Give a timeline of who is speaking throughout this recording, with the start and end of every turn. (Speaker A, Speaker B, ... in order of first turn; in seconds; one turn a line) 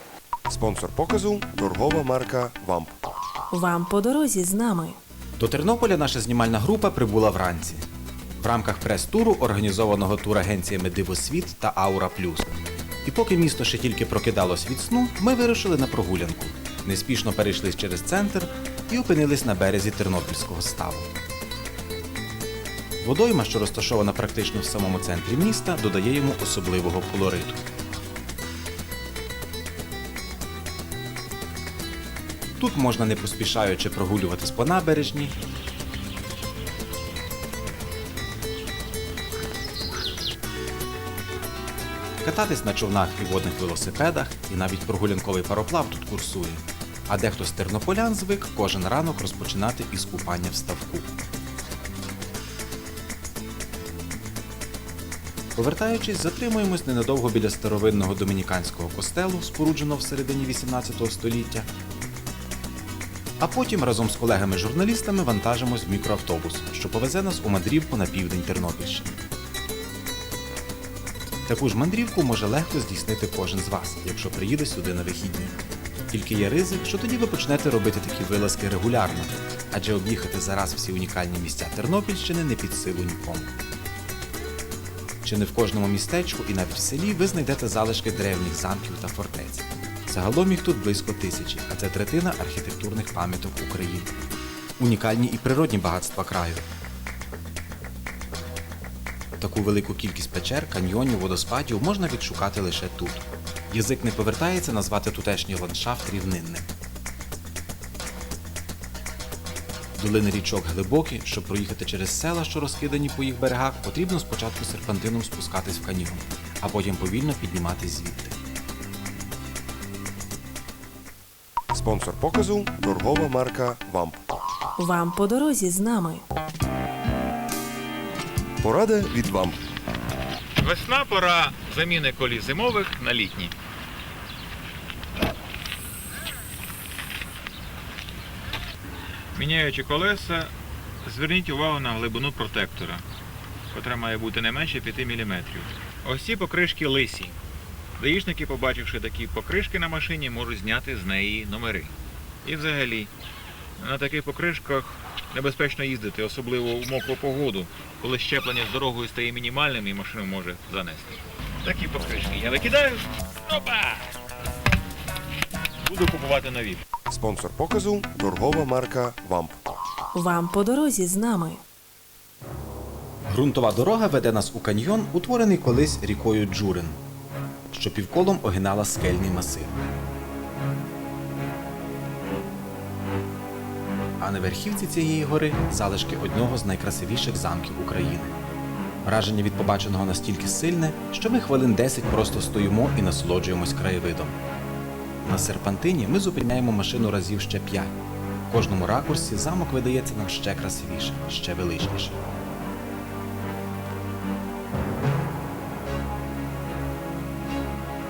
Speaker A: 0.5-2.9
Speaker B: 3.5-5.0
Speaker C: 5.4-7.8
Speaker C: 8.4-12.5
Speaker C: 13.0-21.1
Speaker C: 23.0-27.6
Speaker C: 32.6-35.3
Speaker C: 42.2-51.1
Speaker C: 55.5-61.7
Speaker C: 63.4-69.1
Speaker C: 71.5-75.6
Speaker C: 76.1-83.5
Speaker C: 85.2-94.1
Speaker C: 94.8-96.7
Speaker C: 99.4-106.7
Speaker C: 110.0-118.3
Speaker A: 121.7-124.2
Speaker B: 124.8-126.2
Speaker A: 128.6-129.6
Speaker D: 130.6-133.5
Speaker D: 139.3-140.5
Speaker D: 141.0-143.0
Speaker D: 143.7-147.4
Speaker D: 148.0-153.1
Speaker D: 153.8-164.1
Speaker D: 165.8-166.8
Speaker A: 167.1-169.5
Speaker B: 170.1-171.6
Speaker C: 173.3-177.0
Speaker C: 177.7-179.8
Speaker C: 184.2-188.3
Speaker C: 189.0-194.4
Speaker C: 195.2-197.9
Speaker C: 198.5-202.2